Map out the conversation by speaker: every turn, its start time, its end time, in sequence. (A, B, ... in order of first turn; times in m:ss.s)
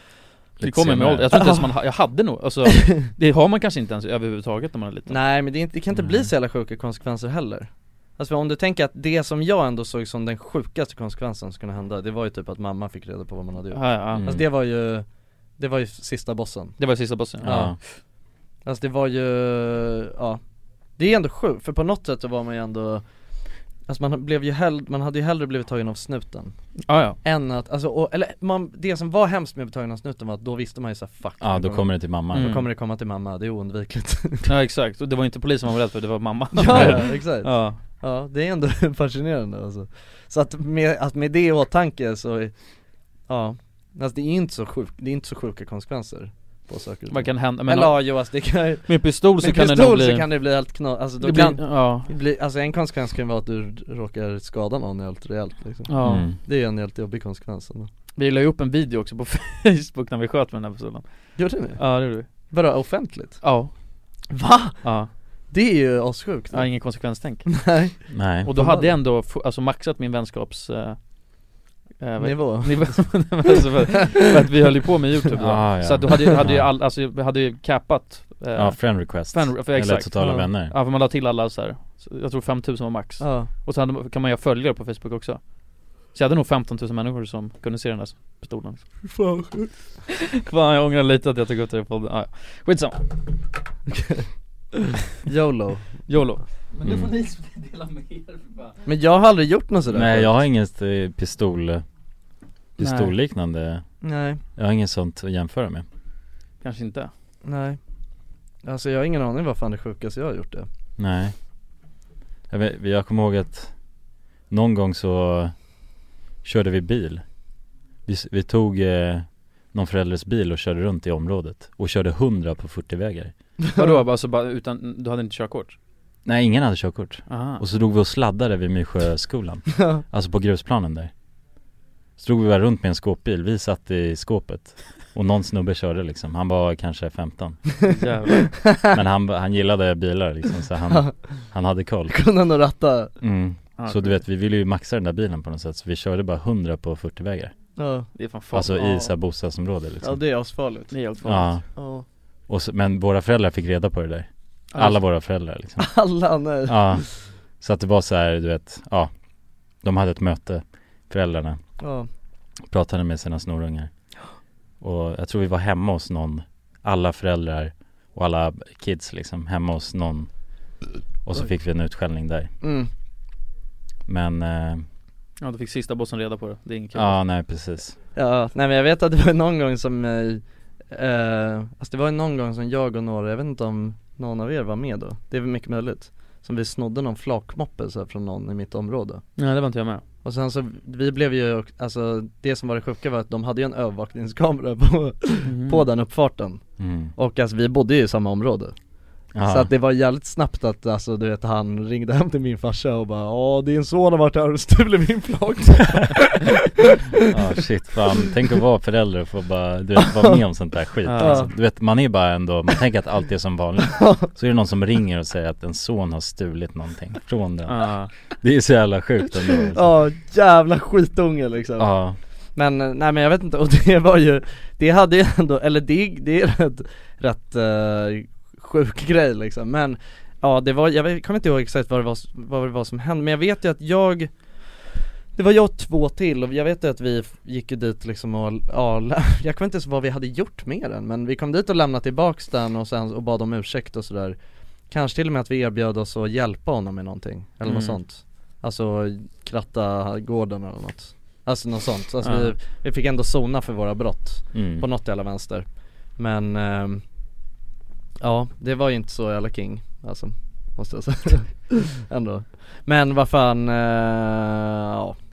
0:00.6-0:01.3 A
0:00.6-0:05.2 B
0:01.3-0:01.7 C
0:02.6-0:03.1 C
0:05.1-0:15.0 C
0:06.0-0:06.2 A
0:13.7-0:14.3 B
0:15.6-0:16.8 C
0:16.8-0:17.8 B
0:17.4-0:17.8 C
0:17.4-0:17.8 A
0:18.6-0:20.4 C
0:21.0-0:23.0 C
0:23.8-0:26.5 C
0:26.8-0:27.2 B
0:27.0-0:34.5 C
0:31.4-0:32.5 A
0:32.3-0:32.7 B
0:34.4-0:37.8 B
0:36.5-0:42.5 C
0:36.7-0:37.0 A
0:43.3-0:57.9 C
0:47.1-0:50.3 B
0:51.2-0:52.1 B
0:55.9-0:56.3 B
0:56.0-0:56.4 A
0:58.2-1:02.3 B
1:01.4-1:03.5 C
1:03.4-1:03.7 B
1:04.3-1:05.0 C
1:04.8-1:05.1 B
1:05.5-1:09.0 C
1:06.5-1:07.7 B
1:08.1-1:08.5 A
1:08.4-1:11.1 B
1:12.0-1:28.8 B
1:12.2-1:13.5 C
1:15.4-1:16.7 A
1:16.1-1:16.4 C
1:18.6-1:20.7 A
1:20.2-1:20.5 C
1:23.2-1:23.5 C
1:29.0-1:29.7 C
1:30.3-1:33.0 B
1:33.9-1:34.2 C
1:35.2-1:35.9 C
1:36.1-1:38.8 B
1:36.8-1:37.1 A
1:38.8-1:40.3 C
1:39.9-1:41.8 A
1:42.8-1:43.1 B
1:42.8-1:43.8 A
1:44.0-1:44.4 C
1:44.6-1:45.8 A
1:46.6-1:47.1 B
1:47.4-1:47.8 C
1:48.6-1:50.7 C
1:51.0-1:51.3 A
1:52.5-1:53.7 A
1:54.5-1:55.5 A
1:56.4-1:57.2 A
1:58.1-2:03.3 A
2:03.8-2:05.8 B
2:06.2-2:11.1 A
2:07.3-2:07.6 B
2:09.8-2:10.0 C
2:12.2-2:17.6 A
2:17.8-2:18.6 B
2:17.8-2:18.9 C
2:18.9-2:22.1 A
2:20.9-2:21.4 C
2:22.1-2:23.1 C
2:23.2-2:27.5 A
2:23.8-2:24.1 B
2:27.8-2:28.1 C
2:28.1-2:29.1 B
2:28.5-2:30.2 A
2:30.0-2:31.1 C
2:30.9-2:31.6 B
2:31.3-2:31.6 A
2:31.7-2:32.0 C
2:32.5-2:34.2 A
2:34.7-2:35.0 B
2:34.8-2:35.8 A
2:35.8-2:37.1 C
2:36.7-2:37.0 A
2:37.6-2:39.1 A
2:39.8-2:41.6 A
2:41.8-2:42.1 C
2:42.7-2:43.9 A
2:44.8-2:50.3 A
2:51.3-2:52.5 A
2:52.6-2:52.9 C
2:54.1-2:54.8 A
2:55.4-2:57.2 B
2:57.0-2:57.9 A
2:58.1-3:09.2 C
3:09.4-3:10.0 B
3:10.2-3:16.6 C
3:15.4-3:15.9 B
3:16.8-3:17.1 A
3:17.2-3:18.7 C
3:19.4-3:19.7 A
3:19.4-3:27.1 C
3:27.3-3:37.8 A
3:30.0-3:30.4 C
3:31.0-3:31.5 B
3:31.2-3:31.5 C
3:33.9-3:34.3 C
3:37.6-3:38.1 B
3:38.4-3:39.8 A
3:39.7-3:41.9 C
3:41.8-3:42.1 A
3:42.6-3:54.3 C
3:55.3-4:04.4 C
4:04.9-4:17.0 C
4:07.6-4:08.0 B
4:12.2-4:12.5 B
4:14.5-4:14.8 A
4:18.2-4:25.2 C